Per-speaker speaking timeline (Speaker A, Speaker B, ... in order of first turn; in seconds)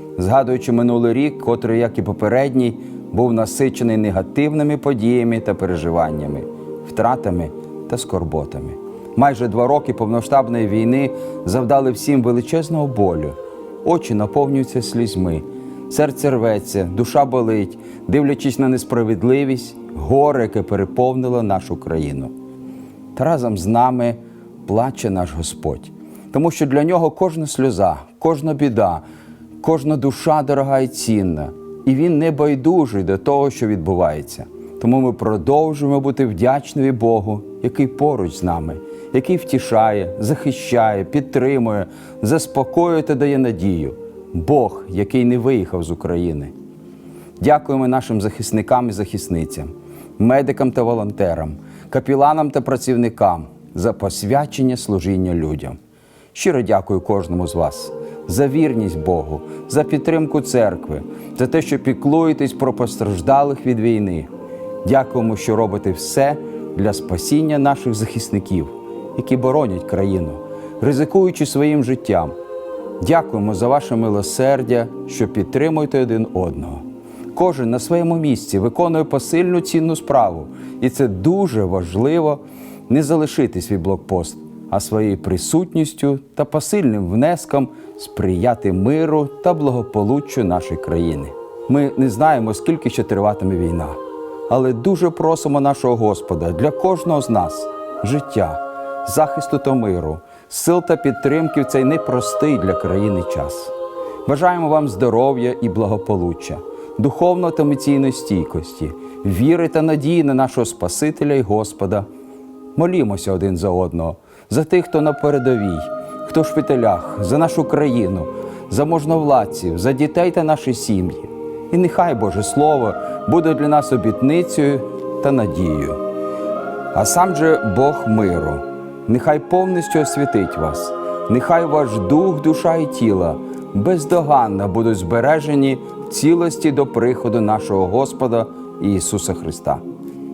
Speaker A: 0.2-22.3, 23.1-29.0, 29.6-46.5, 47.4-55.8, 56.3-64.3, 64.8-72.3, 73.0-94.0, 94.5-103.7, 104.3-112.1, 112.8-126.0, 126.9-139.8